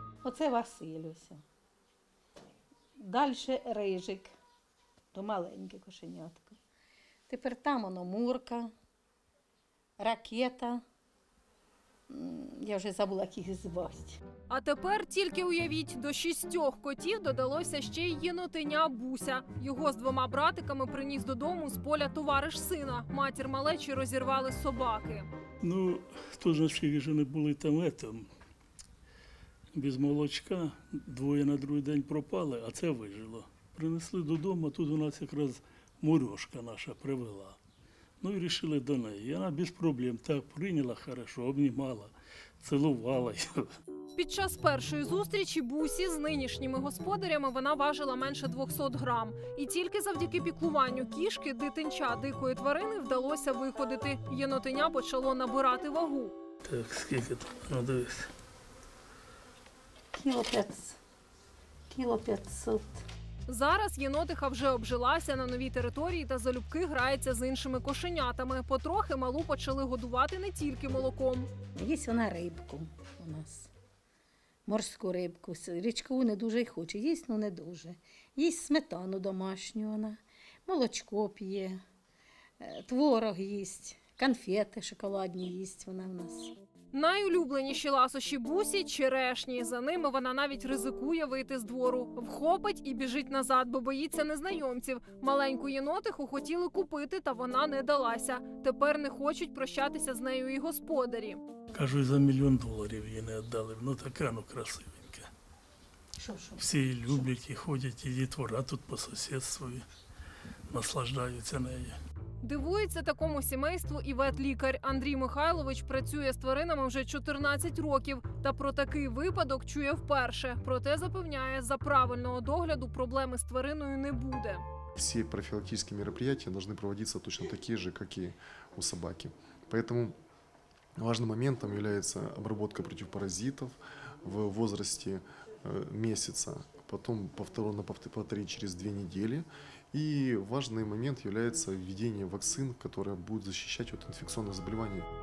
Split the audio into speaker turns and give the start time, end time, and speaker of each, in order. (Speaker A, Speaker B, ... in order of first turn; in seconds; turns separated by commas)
Speaker A: 0.2-1.4, Speaker A: 3.0-4.3, Speaker A: 5.1-6.6, Speaker A: 7.3-8.7, Speaker A: 10.0-10.8, Speaker A: 12.1-14.2, Speaker B: 14.5-25.3, Speaker C: 25.6-28.3, Speaker C: 29.7-37.6, Speaker C: 38.2-43.7, Speaker B: 44.1-56.3, Speaker C: 56.6-58.3, Speaker A: 60.1-61.0, Speaker A: 61.9-63.0, Speaker B: 63.5-71.5, Speaker A: 71.7-73.7, Speaker A: 74.7-81.8, Speaker A: 82.6-86.5, Speaker B: 86.9-101.4, Speaker C: 101.7-105.3, Speaker A: 106.2-106.6, Speaker C: 106.6-109.8, Speaker C: 110.7-112.0, Speaker B: 112.4-124.6, Speaker D: 125.0-130.2, Speaker D: 131.0-145.1